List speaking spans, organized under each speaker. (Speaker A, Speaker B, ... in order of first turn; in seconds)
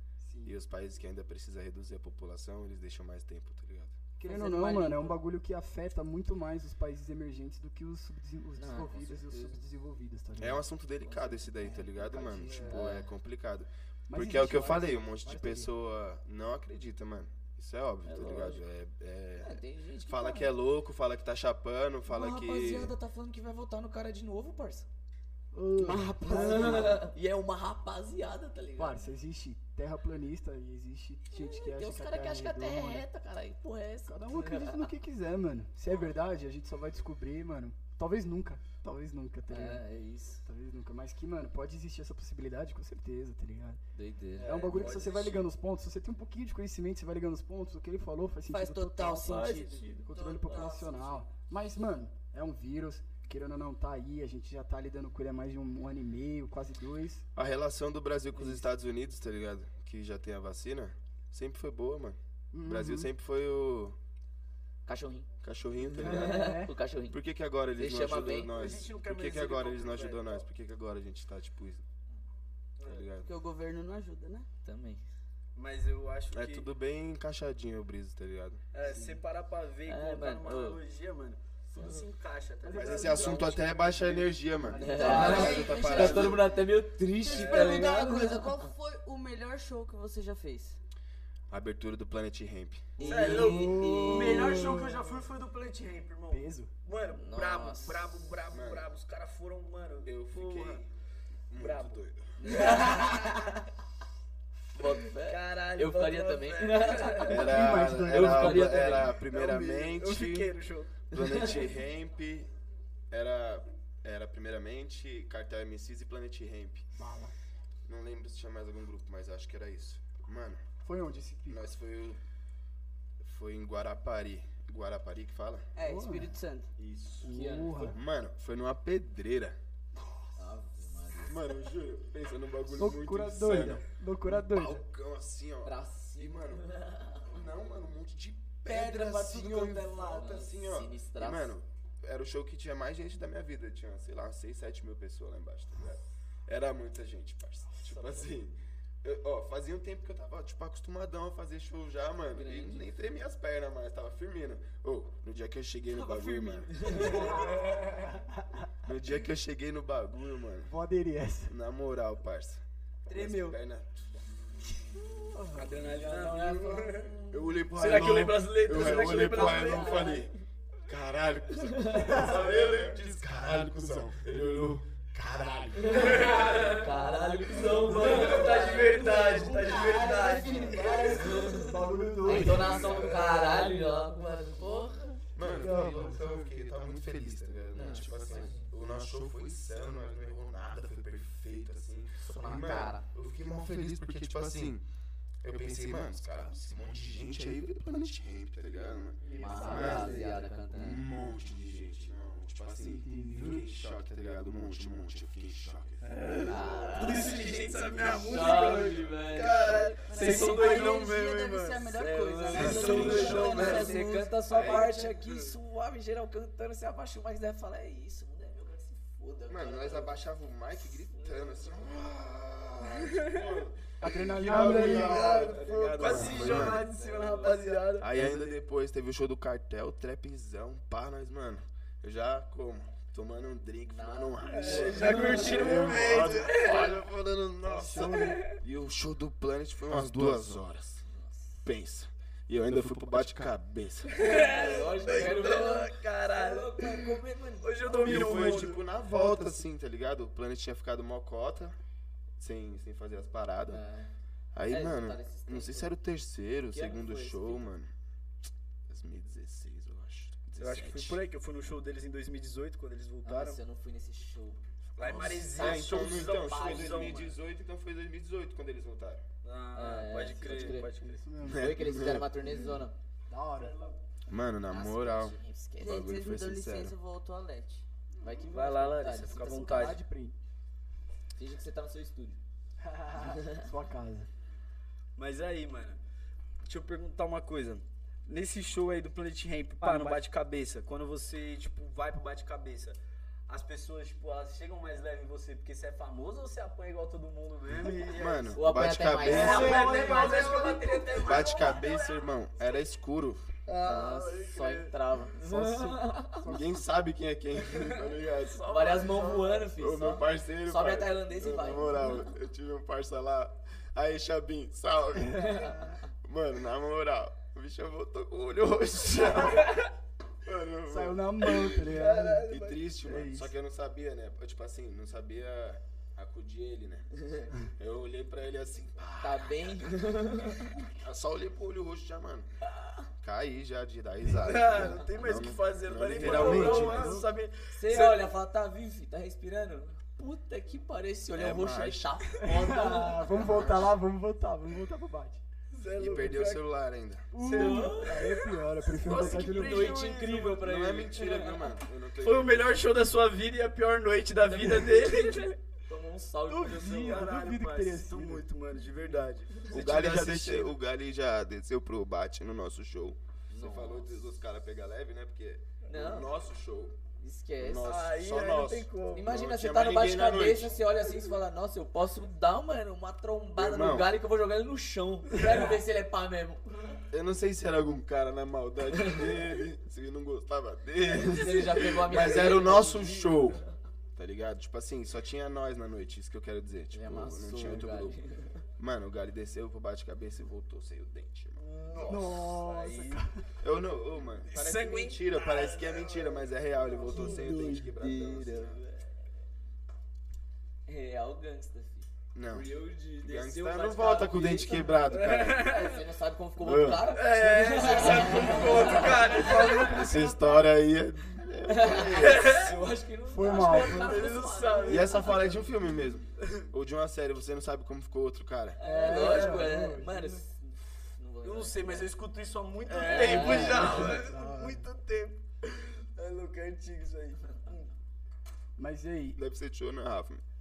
Speaker A: 0.2-0.6, 4.2-12.9, 14.1-15.7, 25.5-27.1, 28.8-33.0, 34.1-39.8, 40.5-43.8, 44.4-57.3, 58.4-58.7, 62.5-63.1, 66.0-66.7, 78.8-79.1, 82.6-85.9, 93.0-95.1, 96.3-96.7, 107.3-109.0, 117.0-117.3, 120.8-121.6, 125.8-126.3, 127.2-128.0, 132.7-134.8, 157.4-158.2, 160.7-161.5, 163.1-163.6, 165.3-165.8, 179.5-179.8, 180.3-183.1, 185.4-186.2, 199.3-200.2, 202.8-203.7, 224.0-225.6, 237.7-238.4, 271.0-271.7, 273.3-273.7, 279.3-280.4, 282.8-284.3, 289.8-290.2, 299.2-300.9, 306.3-306.9, 315.4-316.0, 320.9-322.5, 323.0-323.5, 336.2-337.3, 342.4-345.4, 347.3-350.0, 356.6-358.5, 392.1-393.4, 397.1-397.5, 409.1-410.0, 413.3-414.3, 418.8-420.4, 423.3-424.9, 428.8-429.4
Speaker B: 0.4-4.0, 10.4-22.9, 57.4-64.0, 65.4-66.5, 67.1-71.8, 72.8-73.3, 76.3-78.6, 82.8-86.5, 91.5-93.0, 98.5-98.9, 100.0-100.9, 101.5-102.3, 107.2-110.5, 111.1-112.5, 113.1-116.9, 117.9-120.6, 121.5-122.2, 123.2-125.7, 126.8-127.3, 127.9-129.6, 131.2-157.4, 158.8-160.7, 161.5-164.1, 167.3-170.3, 170.9-176.3, 182.7-183.1, 185.3-194.8, 195.4-206.6, 207.7-209.9, 212.6-213.9, 214.5-214.9, 219.5-226.8, 227.9-241.0, 241.6-244.2, 248.0-251.8, 252.4-253.8, 254.5-257.9, 258.9-261.2, 265.0-269.2, 271.4-272.5, 274.3-276.9, 298.1-299.9, 301.2-303.5, 306.5-308.7, 309.7-319.8, 320.4-321.9, 322.5-330.2, 331.0-332.5, 333.2-337.2, 341.3-343.9, 346.0-347.3, 350.6-352.7, 359.7-367.0, 367.6-370.8, 373.6-374.1, 377.1-383.6, 384.2-388.1, 388.8-392.2, 393.6-398.8, 402.3-402.7, 403.2-405.7, 406.6-407.1, 409.6-412.5, 414.9-418.8, 422.9-423.9, 429.4-430.4
Speaker C: 4.2-5.2, 8.6-9.6, 12.6-13.1, 18.1-18.6, 19.4-20.5, 22.1-24.9, 25.8-29.1, 31.3-34.9, 39.5-40.4, 43.9-44.6, 49.0-51.2, 64.9-65.3, 65.9-67.2, 67.8-68.6, 74.7-75.0, 79.9-80.8, 84.8-88.7, 93.0-94.8, 97.1-98.2, 102.4-103.6, 104.7-109.2, 111.2-111.5, 127.2-128.0, 130.4-131.4, 135.6-137.3, 140.1-141.6, 152.3-152.9, 156.7-157.4, 165.9-167.3, 169.1-170.2, 172.0-172.3, 175.8-179.3, 181.1-185.2, 187.8-188.7, 192.2-193.1, 199.3-201.0, 206.4-211.1, 212.0-220.2, 221.1-221.6, 226.0-227.8, 233.9-236.2, 241.1-241.6, 244.2-248.7, 253.7-254.1, 254.7-255.9, 256.7-257.7, 263.2-267.1, 269.8-270.9, 271.5-272.9, 274.7-276.2, 278.2-280.0, 281.4-282.4, 283.2-283.6, 298.6-301.1, 303.8-306.5, 308.7-312.3, 329.2-330.9, 336.2-336.9, 337.7-343.7, 347.4-348.4, 349.0-351.7, 354.5-357.3, 363.5-364.2, 365.8-366.3, 367.2-367.9, 369.1-377.0, 379.0-379.2, 381.1-383.7, 386.9-388.6, 397.1-399.1, 400.9-410.7, 411.7-415.7, 418.8-422.1, 423.0-424.2
Speaker D: 25.9-26.6, 48.5-49.8, 73.2-74.5, 85.0-86.4, 87.2-90.8, 125.8-126.7, 138.7-140.4, 155.9-157.6, 169.6-170.1, 178.6-181.7, 210.0-214.2, 275.8-277.9, 299.7-301.3
Speaker E: 44.4-45.5, 50.2-50.7, 68.5-70.5, 72.8-73.1, 75.6-76.7, 78.7-84.3, 87.3-87.6, 93.0-100.8, 101.5-103.7, 105.1-107.5, 109.1-111.0, 147.8-148.3, 157.0-157.8, 165.5-167.1, 167.7-170.3, 175.9-176.9, 177.7-181.2, 182.3-183.0, 199.3-200.2, 206.0-215.5, 223.0-223.4, 224.4-228.5, 234.5-237.0, 238.0-238.4, 244.1-248.8, 260.6-263.6, 265.0-267.4, 269.4-271.2, 273.6-274.0, 278.5-280.0, 285.2-286.0, 286.7-293.0, 293.5-298.6, 299.2-302.3, 303.7-304.9, 307.6-309.7, 319.5-319.8, 321.8-322.8, 334.3-338.3, 345.7-346.7, 347.4-350.7, 352.2-355.6, 356.5-360.7, 367.8-369.3, 391.6-393.2, 394.4-397.8, 405.1-406.0, 407.1-410.2, 412.1-412.7, 413.5-415.6, 419.0-419.7, 421.4-427.9